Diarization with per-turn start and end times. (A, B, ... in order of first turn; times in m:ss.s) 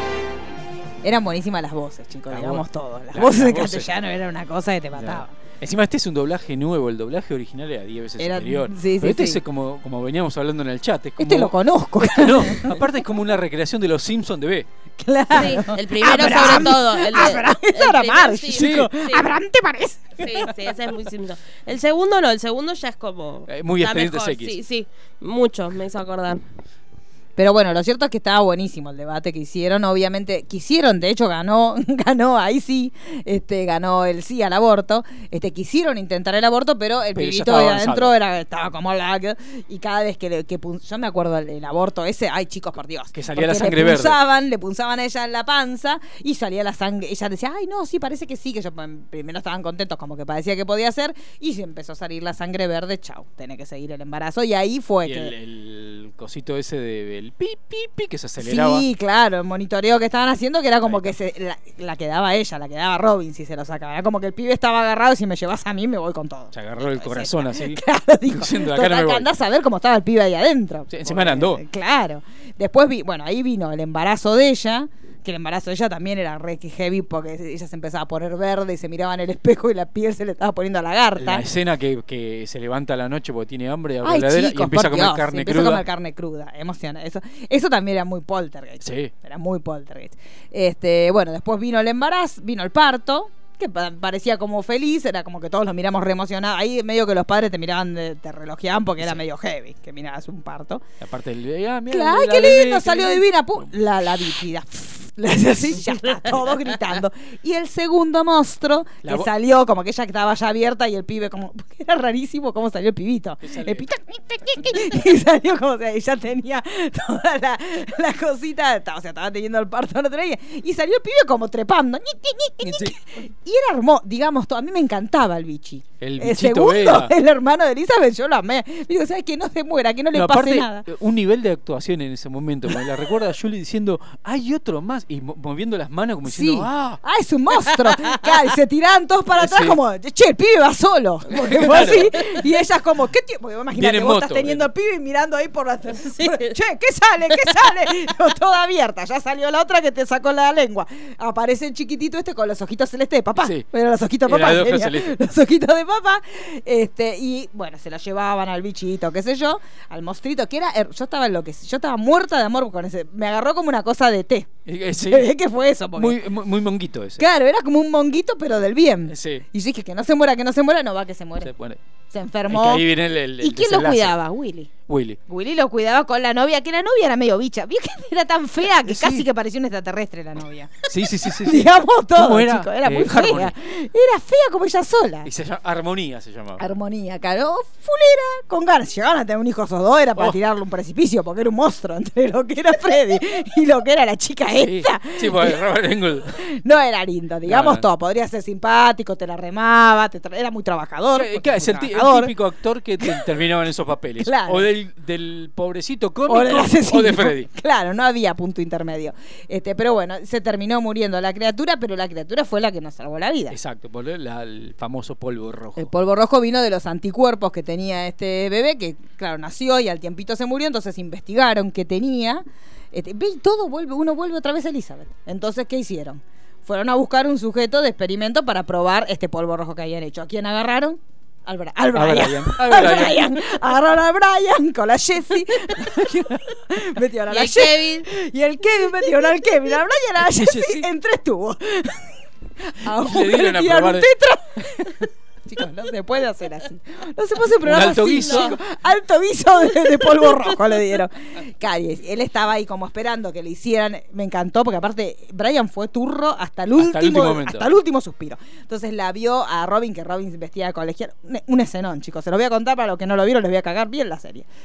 0:01.0-0:05.3 A
0:02.3-0:03.9 B
0:05.0-0:14.7 B
0:08.2-0:09.4 A
0:11.2-0:12.8 A
0:15.0-0:20.5 A
0:15.3-0:19.3 C
0:16.2-0:16.7 B
0:18.5-0:18.9 B
0:20.2-0:26.4 C
0:23.5-0:24.6 B
0:27.4-0:55.3 A
0:37.1-0:38.2 B
0:43.1-0:44.2 B
0:55.0-0:58.8 B
0:58.4-1:21.4 A
1:00.8-1:01.1 B
1:06.5-1:09.3 B
1:10.9-1:11.6 B
1:21.2-1:25.8 B
1:24.0-1:40.8 A
1:28.8-1:29.1 B
1:41.0-1:43.3 B
1:41.9-2:10.9 A
1:49.0-1:49.3 B
1:53.4-1:53.8 B
2:02.6-2:03.0 B
2:06.0-2:07.1 B
2:10.1-2:17.0 B
2:16.2-2:46.2 A
2:17.7-2:18.0 B
2:19.4-2:19.8 B
2:21.3-2:22.4 B
2:23.7-2:24.7 B
2:33.4-2:33.6 B
2:34.2-2:35.2 B
2:44.6-2:45.3 B
2:45.9-2:47.2 B
2:47.2-2:51.5 A
2:49.1-2:49.4 B
2:51.4-2:51.8 B
2:52.1-2:52.9 A
2:52.5-2:54.2 B
2:53.4-2:54.7 A
2:54.9-2:55.2 B
2:55.3-3:05.3 A
2:58.8-2:59.3 B
3:00.9-3:03.5 B
3:05.2-3:06.6 B
3:06.6-3:15.6 A
3:14.5-3:16.4 B
3:16.4-3:22.3 A
3:17.4-3:17.8 B
3:21.1-3:27.5 B
3:23.0-3:23.3 A
3:24.2-3:24.7 A
3:26.3-3:33.6 A
3:33.5-3:35.9 B
3:35.8-4:24.4 A
3:51.9-3:53.4 B
3:57.3-3:58.1 C
4:00.2-4:00.9 B
4:02.8-4:04.1 B
4:07.6-4:08.6 B
4:16.8-4:17.7 B